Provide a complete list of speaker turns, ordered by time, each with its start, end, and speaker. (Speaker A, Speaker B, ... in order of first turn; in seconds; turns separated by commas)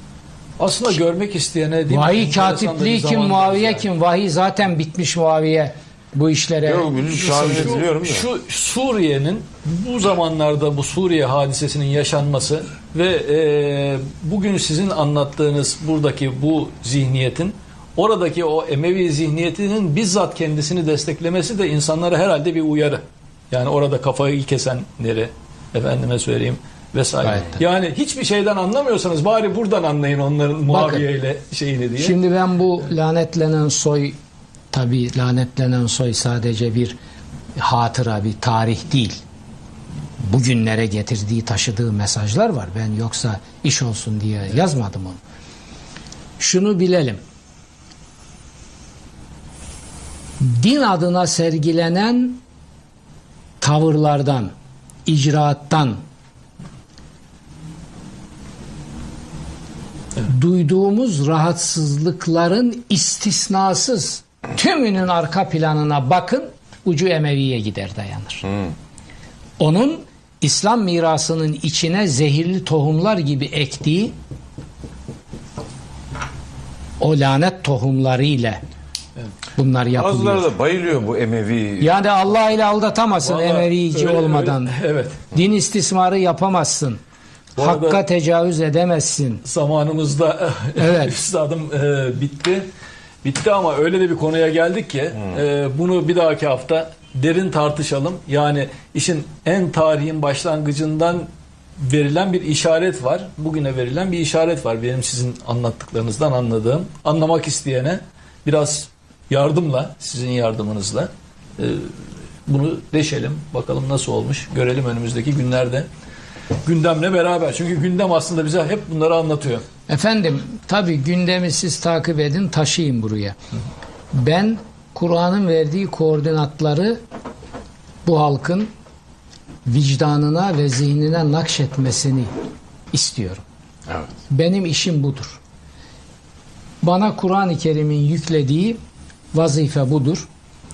Speaker A: 0.6-3.9, Speaker B: 1.9-7.8, Speaker C: 6.7-8.3, Speaker A: 7.4-32.2, Speaker B: 27.2-27.6, Speaker B: 30.7-31.1, Speaker B: 32.0-34.2, Speaker B: 34.7-37.0, Speaker B: 37.6-39.2, Speaker B: 40.2-45.2, Speaker B: 46.4-47.2, Speaker B: 50.4-52.4, Speaker B: 53.6-54.5, Speaker B: 55.1-56.0, Speaker B: 60.2-68.6, Speaker B: 69.6-74.1, Speaker B: 77.0-78.6, Speaker B: 79.6-80.5, Speaker C: 80.0-82.0, Speaker B: 81.8-84.7, Speaker A: 83.2-85.2, Speaker B: 85.3-87.0, Speaker A: 87.6-88.0, Speaker B: 87.6-89.4, Speaker A: 89.4-92.7, Speaker B: 90.8-91.2, Speaker A: 93.2-115.9, Speaker A: 116.6-119.6, Speaker B: 119.9-123.4, Speaker B: 124.1-127.0, Speaker B: 128.1-128.7, Speaker B: 129.7-132.3, Speaker B: 132.9-133.4, Speaker B: 134.3-135.4, Speaker B: 136.8-138.8, Speaker B: 139.3-140.3